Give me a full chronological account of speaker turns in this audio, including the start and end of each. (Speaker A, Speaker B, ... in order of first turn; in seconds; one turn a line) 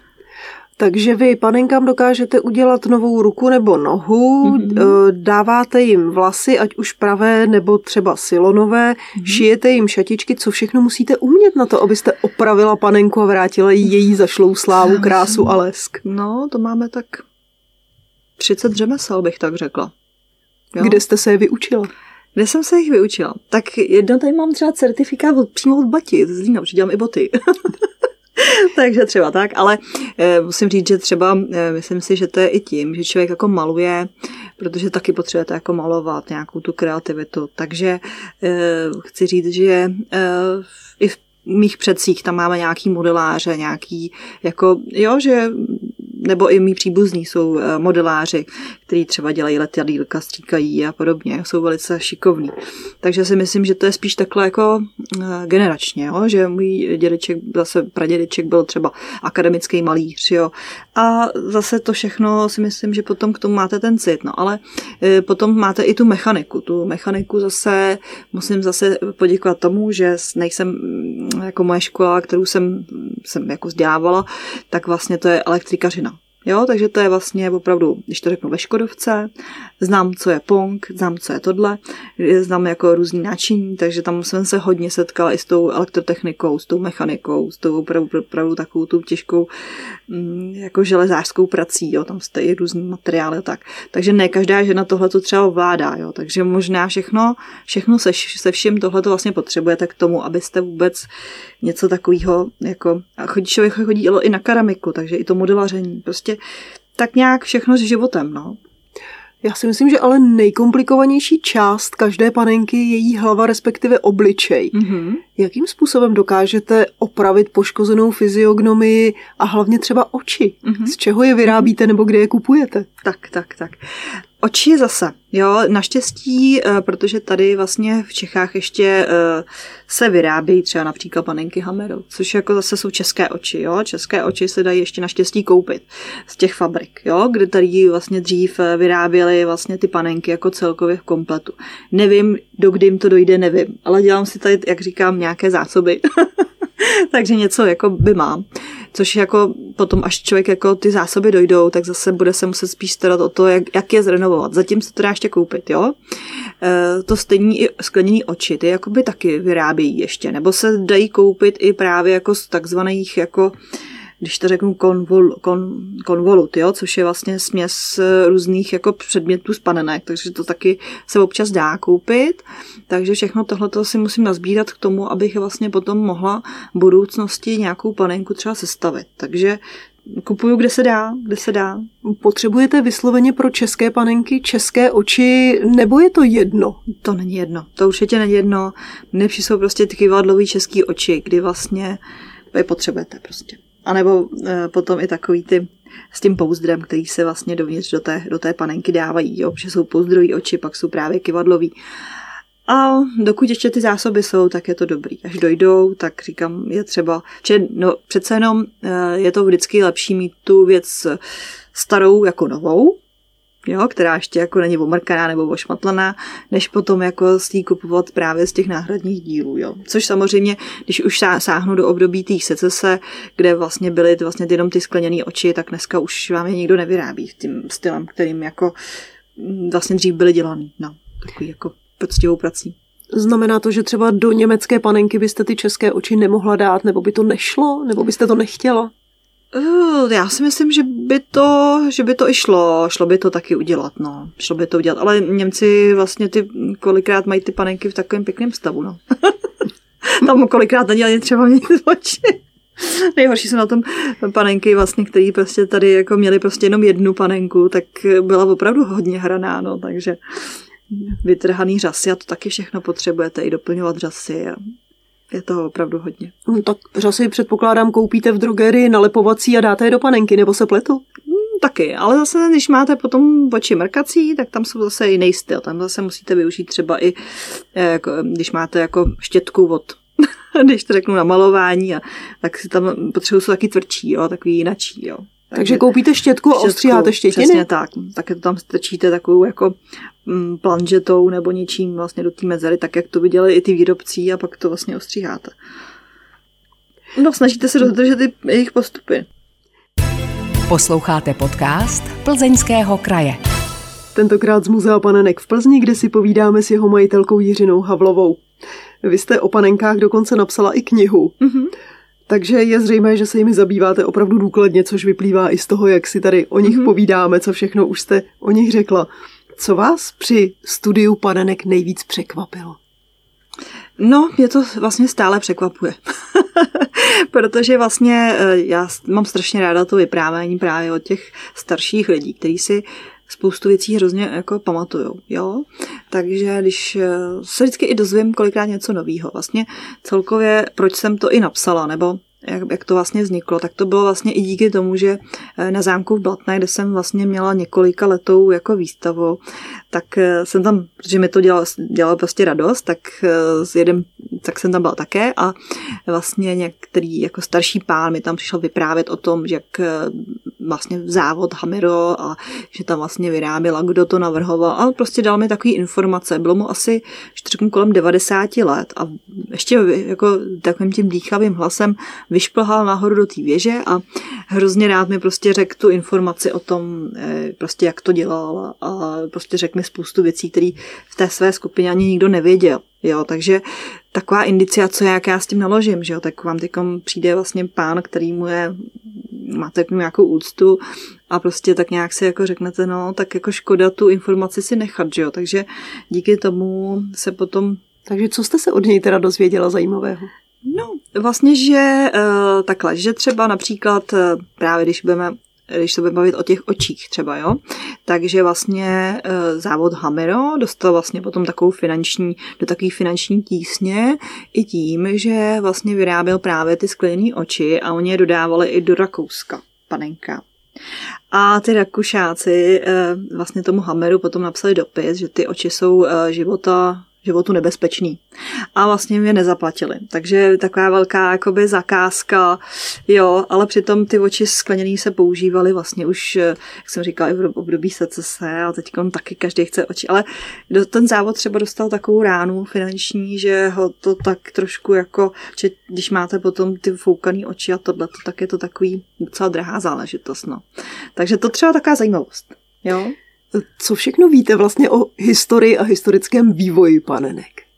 Speaker A: 0.8-16.0
Speaker B: 4.5-4.9
Speaker B: 14.8-17.2
Speaker B: 18.4-19.9
Speaker B: 20.7-21.0
Speaker A: 20.8-21.9
Speaker B: 22.4-89.5
Speaker B: 90.1-101.1
Speaker B: 101.6-106.4
Speaker B: 107.0-108.6
Speaker A: 109.4-114.7
Speaker B: 114.7-115.2
Speaker A: 115.4-122.9
Speaker B: 120.6-120.9
Speaker B: 123.0-155.9
Speaker B: 156.6-163.6
Speaker B: 164.2-181.9
Speaker A: 182.0-186.8
Speaker B: 186.9-192.0
Speaker B: 192.5-201.7
Speaker B: 202.7-211.2
Speaker B: 211.7-213.0
Speaker B: 213.7-228.7
Speaker B: 229.4-232.8
Speaker A: 233.1-238.9
Speaker B: 239.5-249.4
Speaker B: 250.0-264.6
Speaker B: 265.3-266.4
Speaker A: 266.4-271.1
Speaker B: 271.3-285.9
Speaker A: 285.6-287.6
Speaker B: 286.5-295.5
Speaker B: 297.1-299.2
Speaker C: 300.7-303.4
Speaker A: 304.1-308.4
Speaker A: 309.0-311.4
Speaker B: 311.4-311.7
Speaker A: 312.3-322.8
Speaker B: 316.6-316.9
Speaker B: 324.0-349.4
Speaker B: 349.9-355.6
Speaker B: 356.1-397.8
Speaker A: 398.1-400.3
Speaker B: 400.6-420.4
Speaker B: 421.3-428.2
Speaker B: 428.7-450.6
Speaker B: 451.1-453.1
Speaker A: 453.5-457.6